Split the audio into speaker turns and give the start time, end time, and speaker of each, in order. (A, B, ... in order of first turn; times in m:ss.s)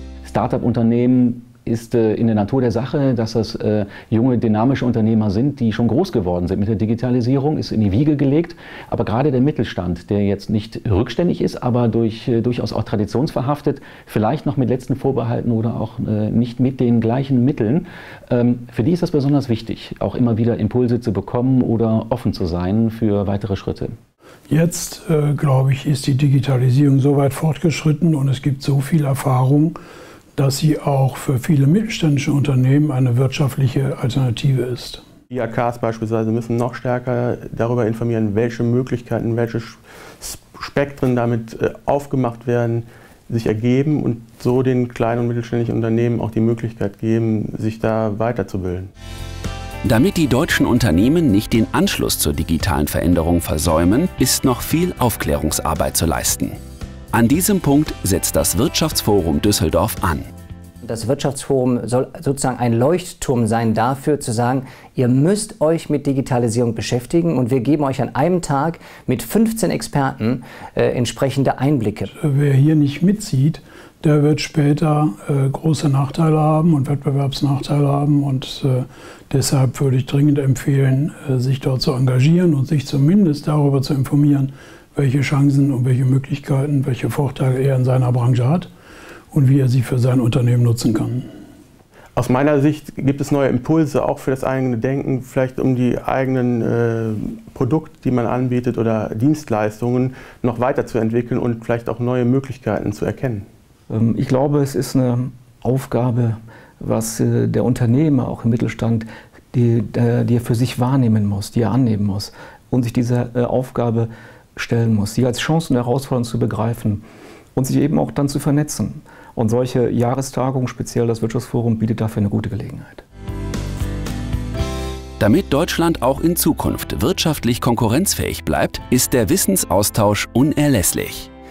0:00.2-0:24.0 A
0:24.5-0:29.8 B
0:30.4-0:35.0 B
0:35.3-0:48.9 C
0:49.8-0:56.6 D
0:57.1-1:00.3 D
1:00.8-1:12.1 E
1:12.2-1:28.7 B
1:29.3-1:31.3 B
1:32.2-1:43.4 C
1:43.9-1:57.0 F
1:57.6-2:03.0 F
2:05.2-2:11.3 D